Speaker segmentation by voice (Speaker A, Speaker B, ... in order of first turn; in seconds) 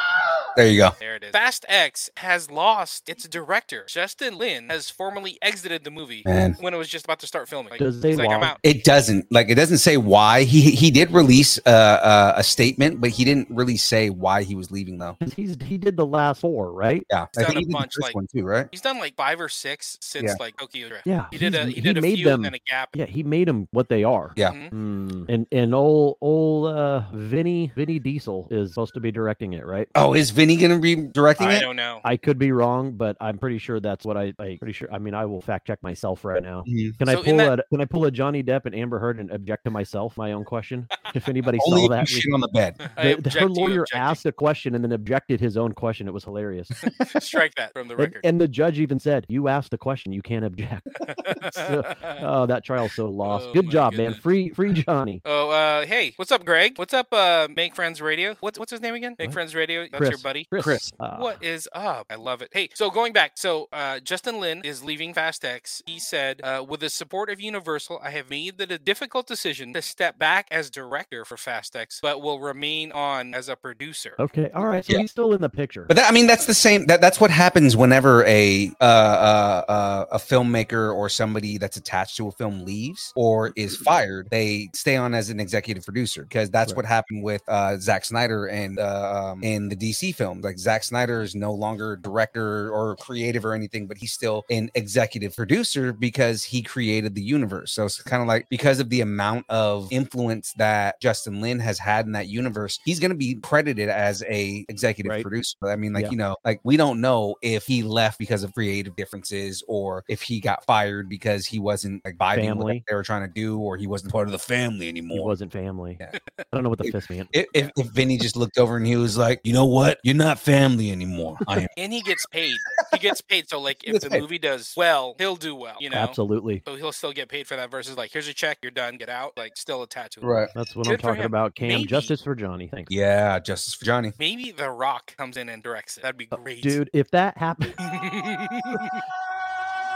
Speaker A: 0.6-0.9, 6.2-6.6, 8.6-15.2, 17.1-18.7, 29.9-31.7, 36.6-37.0, 41.6-42.8, 75.9-115.3, 116.8-121.7, 123.9-124.2, 130.2-130.5, 132.9-134.1
Speaker B: 1.0-8.6, 17.4-18.2, 18.7-22.9, 24.4-24.7, 31.4-32.0, 37.0-37.5, 42.8-44.2, 47.0-48.2, 51.0-52.2, 53.2-54.2, 55.2-74.2, 116.1-116.4, 121.8-130.3, 130.8-132.1, 134.2-136.8, 137.8-138.9
Speaker C: 7.8-8.5, 15.2-17.1, 21.1-29.9, 32.0-42.3, 43.0-46.7, 48.0-50.9, 51.5-55.2, 59.9-61.4, 74.2-75.9, 112.3-112.8, 115.1-116.0, 116.5-117.3, 125.9-126.6, 130.5-132.9, 136.3-137.8